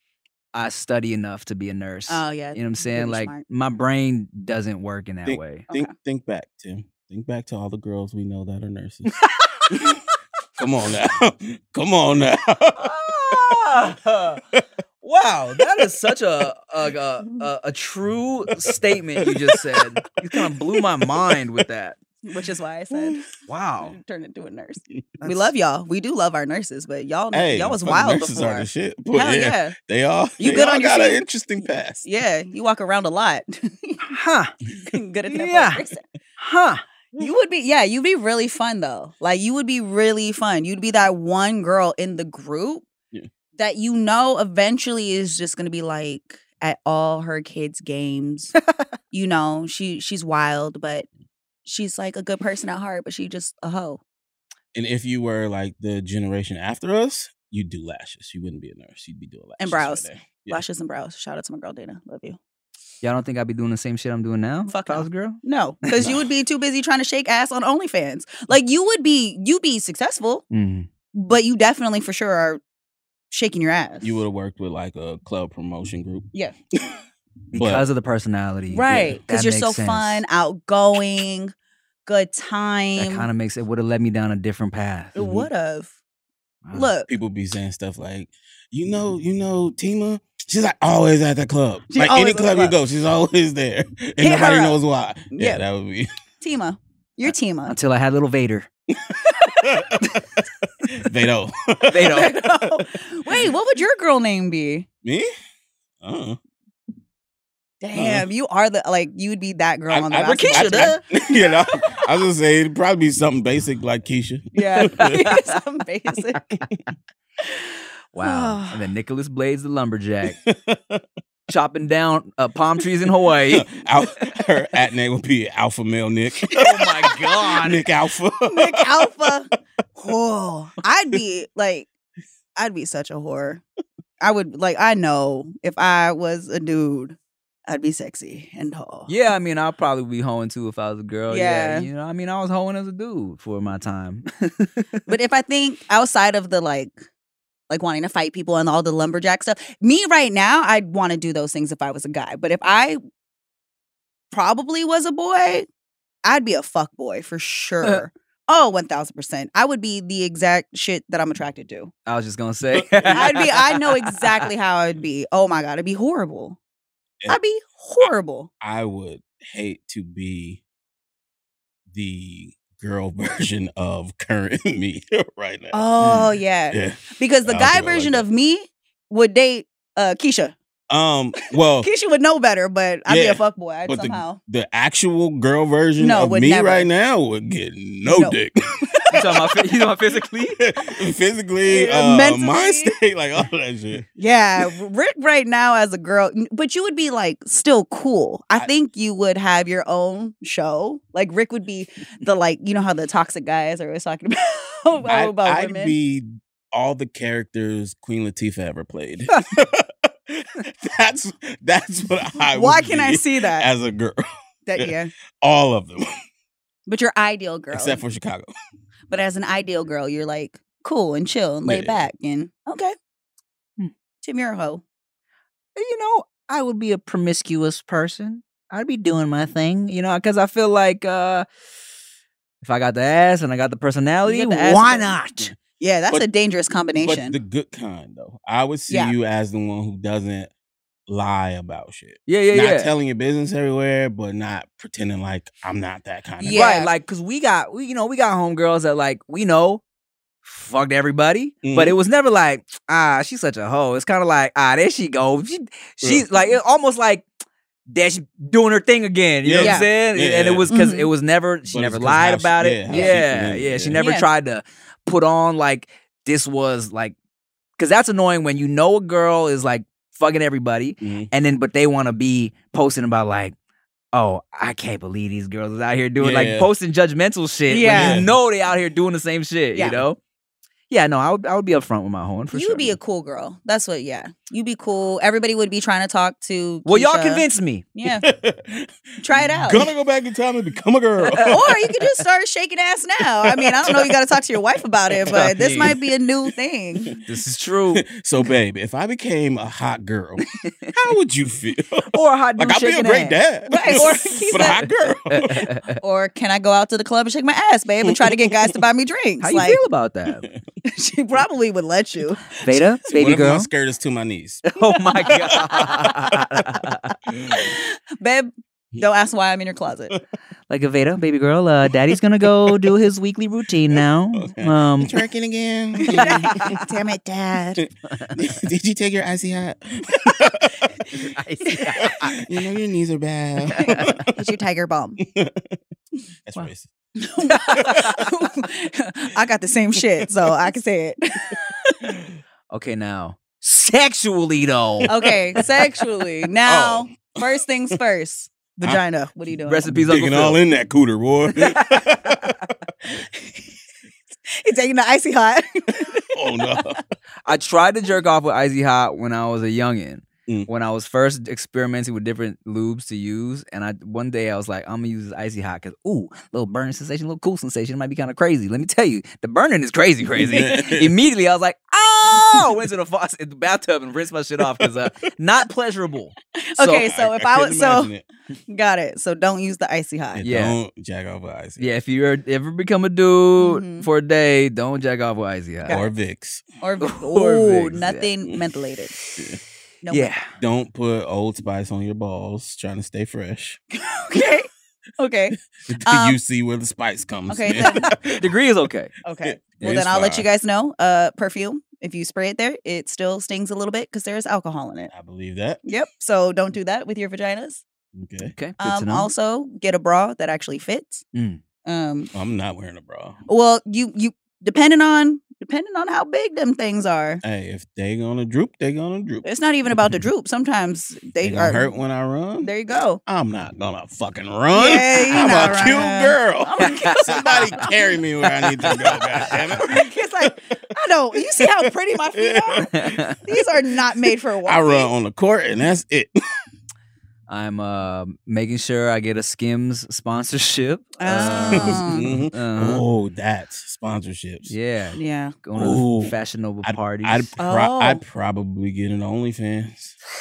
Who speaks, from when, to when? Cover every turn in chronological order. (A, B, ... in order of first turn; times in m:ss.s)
0:00.5-0:05.7 A
0:02.1-0:03.4 B
0:05.2-0:09.1 C
0:09.2-0:09.7 A
0:09.7-0:10.0 C
0:10.6-0:13.6 C
0:12.8-0:14.4 A
0:15.0-0:22.0 A
0:18.6-0:21.4 C
0:22.2-0:23.2 B
0:22.9-0:23.2 C
0:23.5-0:24.0 A
0:23.8-0:29.7 B
0:25.2-0:25.5 A
0:27.3-0:32.0 C
0:30.4-0:31.2 B
0:32.0-0:34.2 B
0:34.1-0:34.5 A
0:34.8-0:36.0 B
0:35.3-0:35.8 A
0:36.4-0:36.8 A
0:37.2-0:42.9 B
0:43.6-0:48.5 B
0:49.1-0:51.1 B
0:51.6-0:54.0 B
0:54.7-1:00.6 C
0:59.6-1:02.4 B
1:03.0-1:05.4 A
1:04.7-1:10.4 B
1:10.5-1:10.9 A
1:11.1-1:12.6 B
1:13.3-1:14.2 B
1:14.0-1:17.0 C
1:17.5-1:17.8 C
1:17.5-1:20.2 A
1:18.7-1:21.5 B
1:18.9-1:19.2 C
1:22.0-1:23.3 B
1:23.0-1:25.2 A
1:25.2-1:25.9 B
1:25.2-1:25.5 C
1:26.6-1:26.9 A
1:26.7-1:27.1 B
1:27.1-1:36.1 C
1:31.9-1:32.8 B
1:34.2-1:34.8 B
1:35.3-1:35.6 B
1:36.4-1:37.8 B
1:37.7-1:38.7 A
1:38.9-1:40.2 C
1:39.3-1:39.7 B
1:40.8-1:43.5 C
1:41.9-1:42.4 A
1:42.1-1:44.9 B
1:45.0-1:45.3 C
1:46.0-1:46.4 C
1:47.8-1:51.8 B
1:47.9-1:48.3 C
1:49.9-1:55.2 C
1:50.2-1:51.0 A
1:54.5-1:56.5 B
1:54.8-1:55.5 A
1:58.1-2:00.4 A
1:58.2-1:58.8 B
2:00.3-2:01.0 C
2:01.5-2:03.8 A
2:03.5-2:06.9 C
2:06.5-2:07.8 A
2:07.4-2:09.3 C
2:08.4-2:11.9 B
2:12.6-2:13.6 B
2:14.2-2:19.1 B
2:19.1-2:25.0 A
2:21.3-2:21.9 B
2:25.1-2:27.0 B
2:27.7-2:33.0 B
2:34.3-2:35.7 B
2:36.2-2:41.9 B
2:42.1-2:44.5 A
2:42.7-2:43.5 C
2:43.1-2:46.6 B
2:47.3-2:48.5 B
2:48.6-2:50.6 C
2:51.9-2:58.2 C
2:55.7-3:00.5 B
3:00.9-3:01.9 C
3:01.8-3:04.4 B
3:03.1-3:09.4 C
3:06.0-3:06.9 B
3:08.1-3:08.4 B
3:09.1-3:10.6 A
3:10.6-3:14.0 C
3:11.7-3:12.9 B
3:14.2-3:25.9 B
3:25.1-3:34.2 C
3:32.5-3:33.7 B
3:34.7-3:35.1 B
3:34.8-3:36.1 C
3:36.9-3:38.0 B
3:37.7-3:38.5 C
3:39.1-3:42.9 B
3:41.6-3:42.0 C
3:44.2-3:44.8 B
3:45.8-3:51.4 A
3:52.6-3:55.5 A
3:54.2-3:55.2 B
3:55.8-3:57.4 B
3:57.0-4:00.5 C
3:58.9-3:59.1 B
4:01.1-4:06.7 C
4:02.3-4:02.9 A
4:06.4-4:06.9 B
4:06.5-4:09.8 A
4:10.4-4:17.3 A
4:11.6-4:12.0 C
4:17.9-4:27.1 A
4:19.4-4:20.7 C
4:19.6-4:19.9 B
4:20.7-4:21.1 B
4:21.7-4:24.0 C
4:22.9-4:23.1 B
4:24.0-4:24.3 B
4:27.8-4:33.5 A
4:31.0-4:31.3 C
4:34.1-4:40.2 A
4:36.2-4:36.7 C
4:37.7-4:38.2 B
4:37.8-4:38.3 C
4:39.7-4:40.0 B
4:40.9-4:43.0 A
4:42.5-4:48.3 B
4:46.8-4:47.8 A
4:48.0-4:51.8 C
4:49.2-4:49.9 B
4:51.2-4:52.1 A
4:51.5-4:57.1 B
4:53.4-4:54.1 C
4:55.1-4:56.0 C
4:55.2-4:55.9 A
4:57.2-4:58.0 A
4:57.9-5:00.4 C
5:00.5-5:00.9 A
5:00.9-5:05.7 C
5:02.1-5:05.9 A
5:03.7-5:04.8 B
5:06.0-5:09.8 B
5:08.0-5:08.8 C
5:09.4-5:10.5 A
5:10.3-5:10.6 C
5:10.8-5:12.6 B
5:12.6-5:13.7 A
5:13.1-5:14.6 C
5:14.7-5:17.1 A
5:14.9-5:15.4 B
5:15.3-5:16.6 C
5:17.3-5:17.7 C
5:17.5-5:20.1 B
5:20.7-5:25.2 A
5:22.4-5:22.9 C
5:23.9-5:26.9 C
5:26.0-5:27.8 B
5:26.1-5:26.8 A
5:27.8-5:30.9 C
5:28.1-5:28.4 A
5:31.1-5:32.4 A
5:32.0-5:34.2 C
5:33.7-5:34.3 A
5:33.8-5:35.2 B
5:35.2-5:35.8 C
5:36.4-5:36.9 C
5:37.2-5:42.0 B
5:37.4-5:38.3 A
5:42.0-5:42.4 C
5:42.7-5:45.1 A
5:45.0-5:45.7 C
5:45.1-5:49.9 B
5:46.6-5:47.5 C
5:49.6-5:50.6 A
5:49.9-5:52.6 C
5:51.6-5:52.4 A
5:54.5-5:56.8 B
5:56.3-5:57.0 C
5:57.4-6:17.1 A
6:10.4-6:11.1 C
6:16.6-6:18.1 B
6:17.0-6:18.2 C
6:18.7-6:20.4 B
6:20.4-6:21.9 C
6:20.4-6:20.8 A
6:21.8-6:26.0 A
6:23.6-6:24.1 B
6:25.9-6:26.6 C
6:26.8-6:29.1 B
6:27.0-6:28.3 A
6:30.0-6:30.3 B
6:30.1-6:30.5 A
6:30.6-6:33.8 C
6:33.9-6:36.4 B
6:35.8-6:38.4 C
6:37.5-6:38.1 B
6:37.8-6:39.1 A
6:39.2-6:45.1 B
6:39.4-6:40.4 C
6:45.1-6:45.8 C
6:45.8-6:47.8 B
6:48.1-6:48.5 C
6:48.5-6:49.3 A
6:48.8-6:51.2 B
6:51.3-6:51.6 A
6:51.8-6:52.3 B
6:52.3-6:53.4 C
6:53.5-6:57.4 B
6:57.4-6:59.4 C
6:59.4-7:01.9 B
7:01.4-7:02.7 C
7:02.6-7:03.2 B
7:03.2-7:10.5 C
7:04.7-7:08.2 B
7:05.3-7:05.8 A
7:06.8-7:07.7 A
7:08.8-7:09.8 A
7:09.8-7:12.9 B
7:11.3-7:13.7 C
7:12.8-7:13.4 A
7:13.4-7:15.1 B
7:14.6-7:16.4 C
7:17.5-7:23.0 A
7:21.2-7:22.3 B
7:21.7-7:24.7 C
7:24.7-7:27.5 A
7:25.2-7:25.6 B
7:25.7-7:30.2 C
7:27.6-7:28.2 B